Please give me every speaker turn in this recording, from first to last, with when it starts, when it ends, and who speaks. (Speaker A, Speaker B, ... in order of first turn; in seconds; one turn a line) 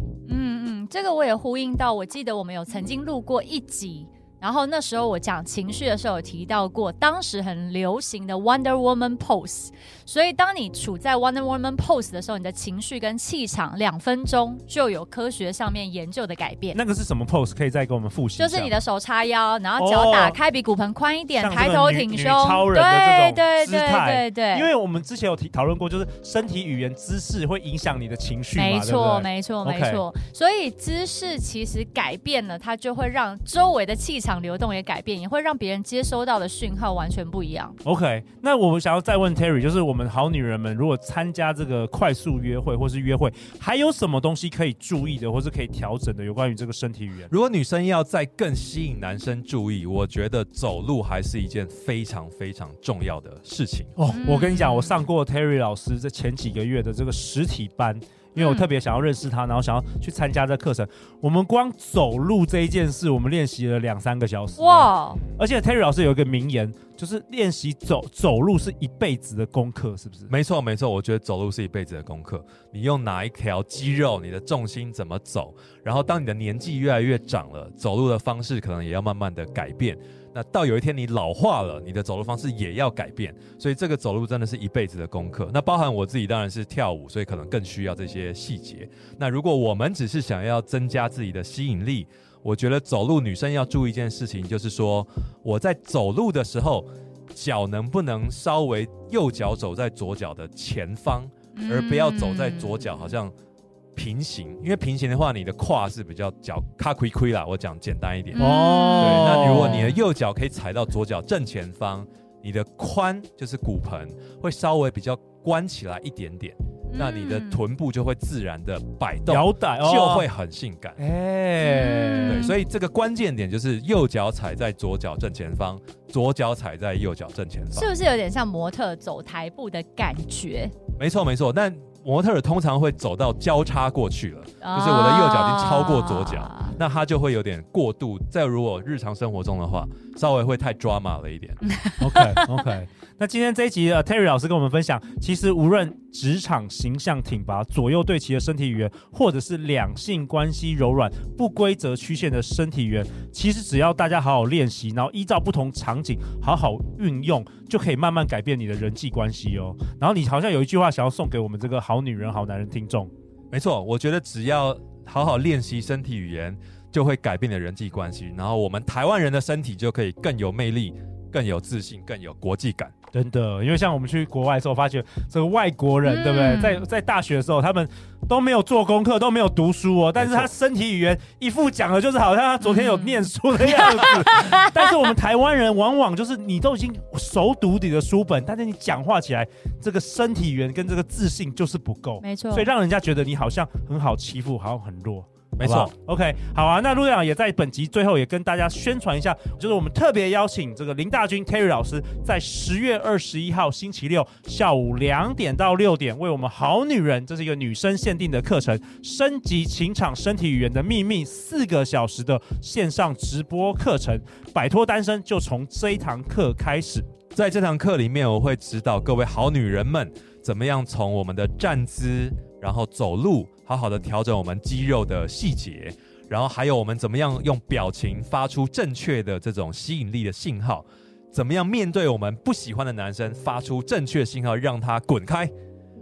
Speaker A: 0.3-16.8
Speaker B: 16.7-18.7
Speaker A: 18.4-24.7
Speaker B: 19.8-20.4
Speaker B: 21.4-30.0
Speaker A: 28.6-37.8
Speaker B: 37.8-47.3
Speaker C: 47.3-53.9
Speaker B: 54.0-70.3
Speaker A: 54.1-55.0
Speaker A: 58.4-58.7
Speaker A: 64.6-65.2
Speaker C: 70.3-103.3
Speaker A: 101.5-103.1
Speaker C: 104.0-121.0
Speaker A: 108.3-110.0
Speaker B: 108.4-109.9
Speaker A: 116.9-117.6
Speaker B: 119.3-120.3
Speaker B: 121.0-122.5
Speaker A: 121.6-122.6
Speaker C: 122.2-127.9
Speaker A: 127.7-130.7
Speaker C: 131.0-141.6
Speaker A: 134.6-136.8
Speaker A: 141.7-142.4
Speaker B: 142.0-163.1
Speaker C: 163.5-172.9
Speaker B: 173.1-217.1
Speaker A: 176.0-176.8
Speaker C: 180.2-180.5
Speaker A: 182.7-184.9
Speaker A: 192.2-192.7
Speaker C: 195.6-195.9
Speaker C: 217.3-235.5